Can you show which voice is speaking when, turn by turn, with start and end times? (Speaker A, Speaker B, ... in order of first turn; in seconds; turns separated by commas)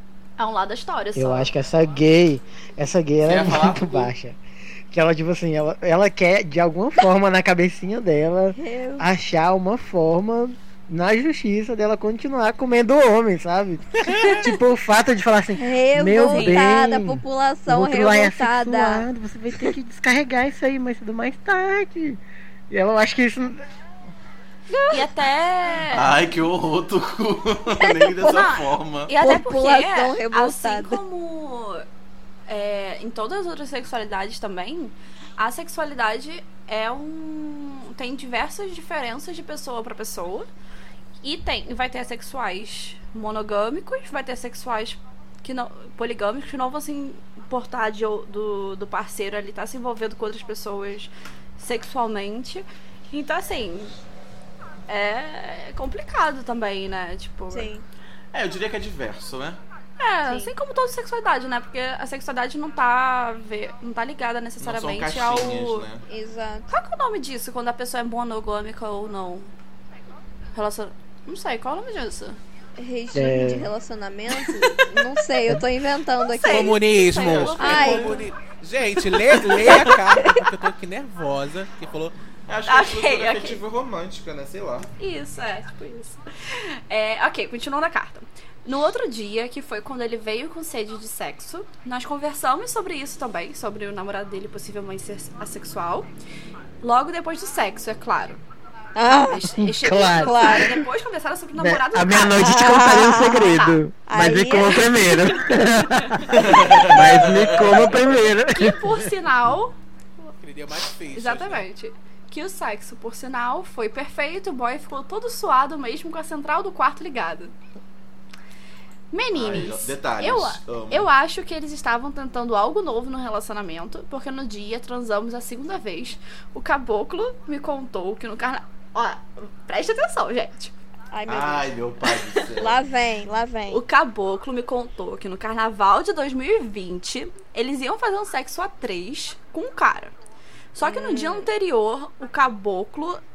Speaker A: 0.4-1.5, Speaker B: 1.1-4.4, Speaker C: 3.2-4.1, Speaker B: 4.9-23.7, Speaker D: 8.6-9.1, Speaker E: 14.0-14.4, Speaker D: 15.6-19.1, Speaker A: 16.2-16.6, Speaker D: 24.7-25.0, Speaker A: 24.9-26.1, Speaker C: 25.9-29.1, Speaker D: 27.8-28.5, Speaker A: 28.2-31.9, Speaker D: 29.2-31.0, Speaker A: 32.5-40.5, Speaker A: 41.2-54.0, Speaker A: 54.9-57.7, Speaker D: 57.5-57.8, Speaker C: 58.3-59.6, Speaker A: 60.0-65.9, Speaker D: 60.3-60.5, Speaker C: 64.6-66.0, Speaker D: 66.1-66.7, Speaker A: 66.7-69.5, Speaker A: 70.5-72.4, Speaker D: 72.8-76.8, Speaker B: 73.1-73.7, Speaker A: 74.4-74.8, Speaker A: 76.3-78.3, Speaker E: 76.5-82.1, Speaker C: 77.2-77.9, Speaker D: 77.6-78.2, Speaker C: 82.5-84.9, Speaker A: 82.7-83.6, Speaker A: 85.0-96.1, Speaker A: 96.8-98.4, Speaker D: 99.0-99.5, Speaker A: 99.2-102.7, Speaker B: 99.6-100.8, Speaker D: 100.1-100.8, Speaker B: 101.6-109.1, Speaker D: 102.4-105.5, Speaker C: 106.4-107.9, Speaker A: 108.5-110.3, Speaker E: 110.4-111.6, Speaker A: 111.1-117.5, Speaker A: 119.1-130.7, Speaker C: 119.3-121.1, Speaker D: 131.1-131.7, Speaker C: 131.3-132.8, Speaker D: 132.6-133.8, Speaker A: 133.7-140.2, Speaker A: 140.8-143.2, Speaker D: 140.8-141.5